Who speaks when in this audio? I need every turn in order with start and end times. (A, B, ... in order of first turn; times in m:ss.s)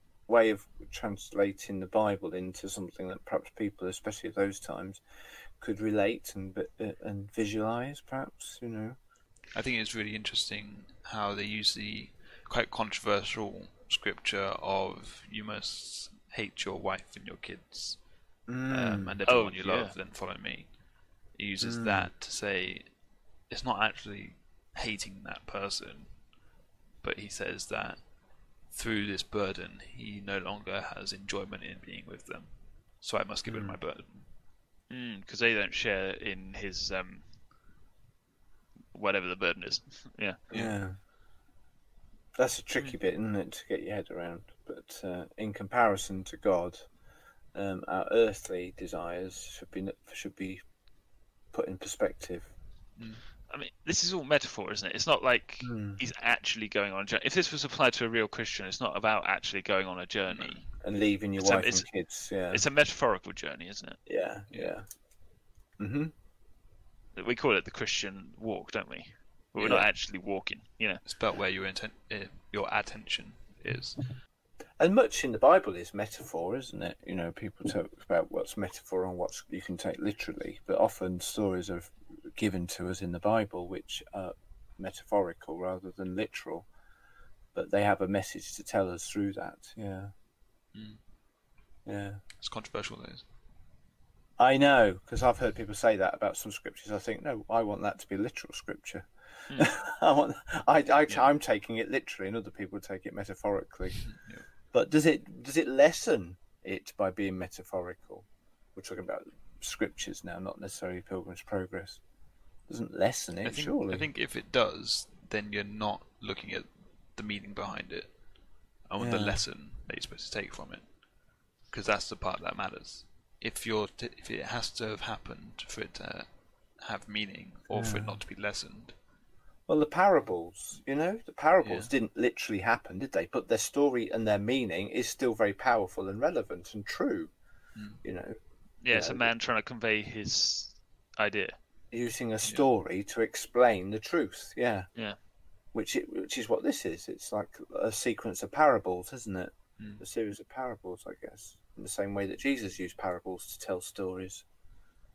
0:00.3-0:05.0 A
0:05.6-0:09.0 A
0:09.5-0:18.0 B
0:18.5-0:19.2 A
0:18.7-0:20.7 B
0:19.3-0:19.9 C
0:21.4-0:22.9 B
0:21.6-0:22.1 A
0:23.5-0:26.1 B
0:27.0-0:28.0 B
0:28.7-0:32.5 B
0:33.0-0:34.2 B
0:33.5-0:33.8 A
0:34.9-0:37.2 C
0:38.9-0:40.4 C
0:40.5-0:41.0 A
0:42.4-0:46.9 A
0:47.5-0:50.6 A
0:51.5-0:52.5 A
0:53.0-0:53.2 B
0:53.5-1:00.7 C
0:55.6-0:56.0 A
1:00.3-1:00.6 B
1:00.8-1:02.6 A
1:01.4-1:01.9 C
1:02.5-1:04.0 C
1:04.1-1:04.9 A
1:05.8-1:06.1 A
1:07.2-1:11.0 C
1:09.6-1:09.9 A
1:11.0-1:14.0 B
1:14.8-1:26.7 A
1:27.5-1:30.1 A
1:30.7-1:31.0 B
1:31.9-1:32.2 A
1:32.4-1:33.2 B
1:34.4-1:44.0 A
1:44.0-1:44.4 B
1:44.7-1:52.0 A
1:52.7-1:54.1 A
1:53.4-1:58.1 B
1:58.9-2:00.8 B
1:59.0-1:59.4 A
2:01.7-2:08.9 B
2:07.7-2:08.2 A
2:09.7-2:17.3 A
2:11.6-2:11.9 B
2:17.8-2:18.0 B
2:18.0-2:18.4 A
2:18.8-2:21.6 C
2:18.9-2:19.3 A
2:21.9-2:24.9 A
2:25.7-2:34.4 A
2:29.8-2:30.0 B